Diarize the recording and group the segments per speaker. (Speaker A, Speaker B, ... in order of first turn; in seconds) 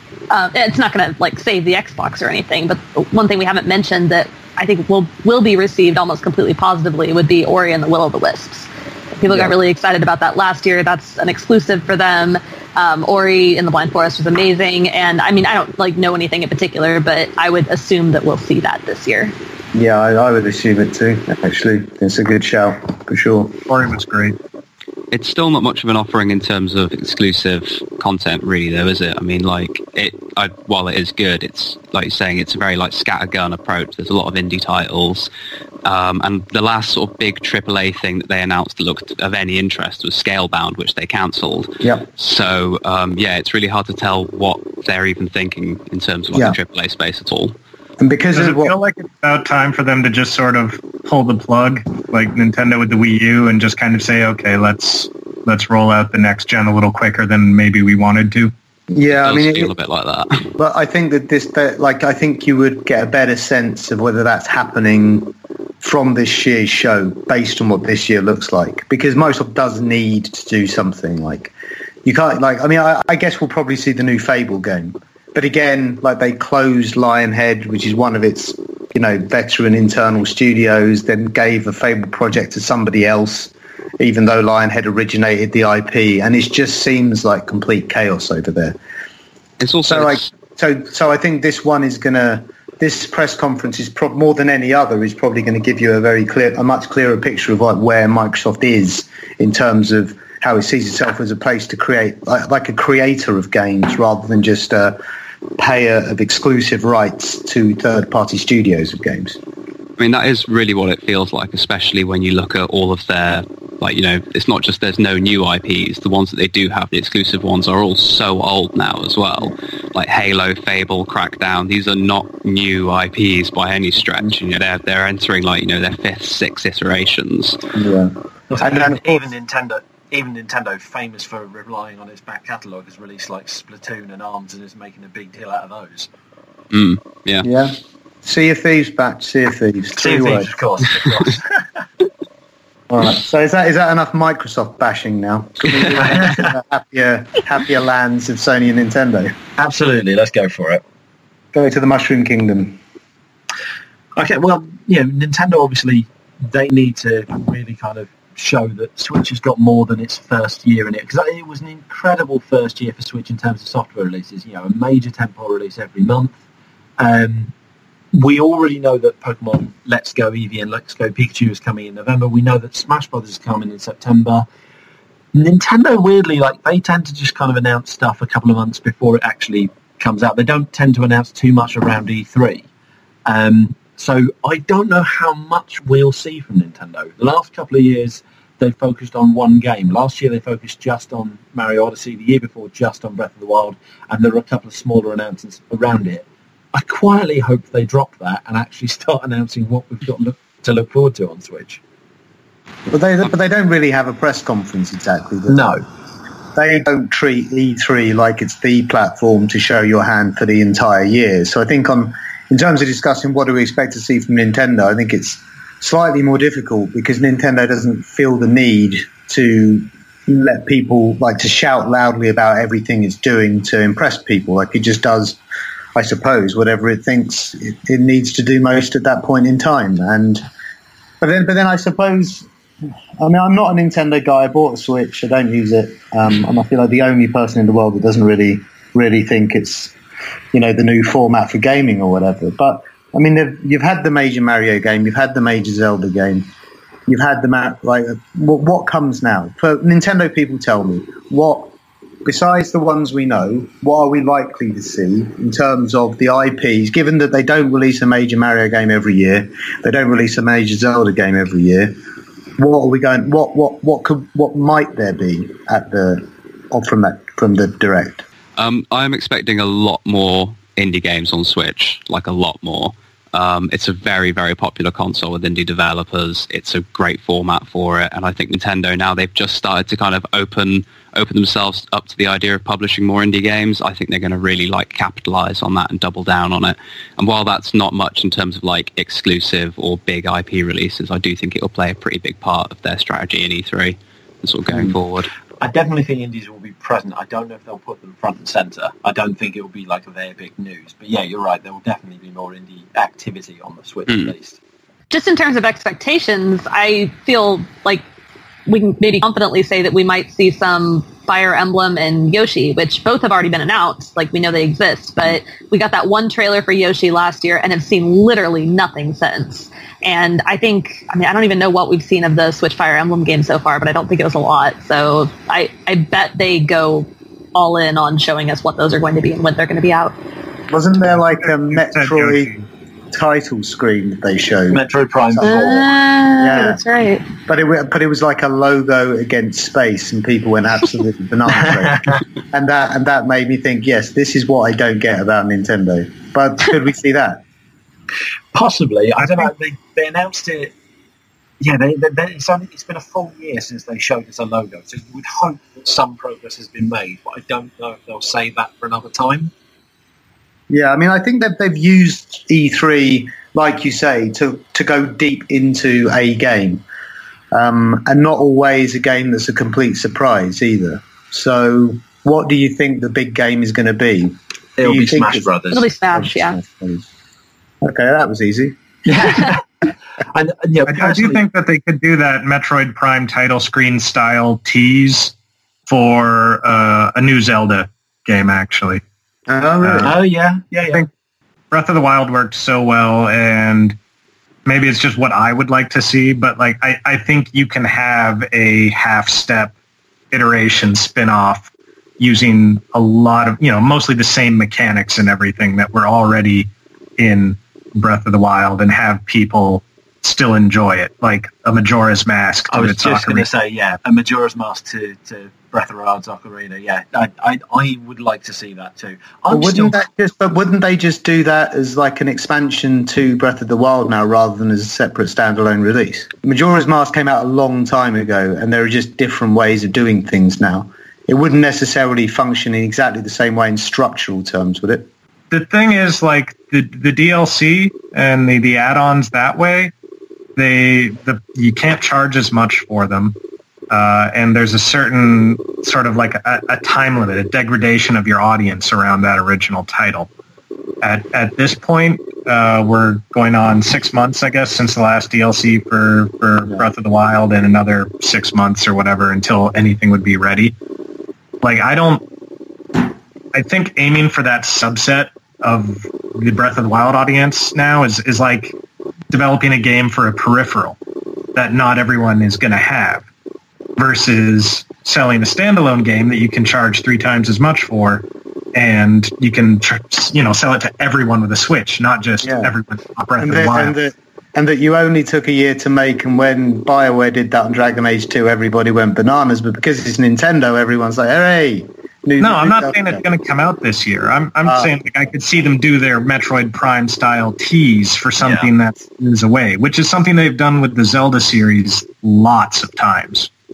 Speaker A: 0.3-19.3, 305.1-308.0, 308.6-330.1, 335.4-337.3, 375.7-376.6
Speaker B: 9.3-9.5, 19.7-23.6, 41.8-42.0, 48.0-48.7, 58.9-59.7, 60.6-71.5, 72.0-88.8, 89.9-105.0, 105.6-109.4, 127.7-129.0, 137.4-140.5, 142.9-149.3, 151.5-152.8, 202.9-205.6, 206.5-225.4, 225.9-230.4, 231.2-232.5, 233.2-239.9, 240.5-246.5, 247.1-251.7, 252.2-261.9, 262.6-268.2, 330.7-332.5, 333.1-335.6, 336.4-336.8, 337.4-347.4, 360.7-366.8, 367.5-375.5, 376.1-377.1, 377.8-378.8, 389.5-390.1, 419.5-435.1, 482.4-482.7, 483.4-493.2, 494.6-494.9
Speaker C: 23.7-24.4, 48.3-58.5, 331.6-332.6, 380.9-385.3, 385.9-389.0, 389.8-390.1, 391.7-394.0, 394.6-399.7, 400.3-413.4, 435.5-439.9, 440.6-443.4, 443.9-450.3, 451.0-460.7, 461.6-462.2, 463.5-468.8, 469.3-471.0, 471.5-473.3, 474.0-478.2, 478.7-483.9, 492.4-503.5
Speaker D: 25.1-35.3, 35.8-47.5, 59.1-60.4, 89.6-90.3, 110.0-127.6, 136.7-137.4, 268.6-295.3, 304.1-304.3
Speaker E: 128.5-136.1, 139.9-141.8, 145.7-146.5, 149.6-150.8, 154.2-166.4, 167.0-167.5, 168.1-174.4, 175.3-182.7, 183.2-201.8, 205.5-205.8, 295.6-304.6, 334.7-335.9, 341.6-342.2, 348.5-350.7, 351.6-359.5, 374.8-375.9, 379.1-379.6, 380.3-381.4, 390.0-391.1, 412.7-420.0, 498.4-498.7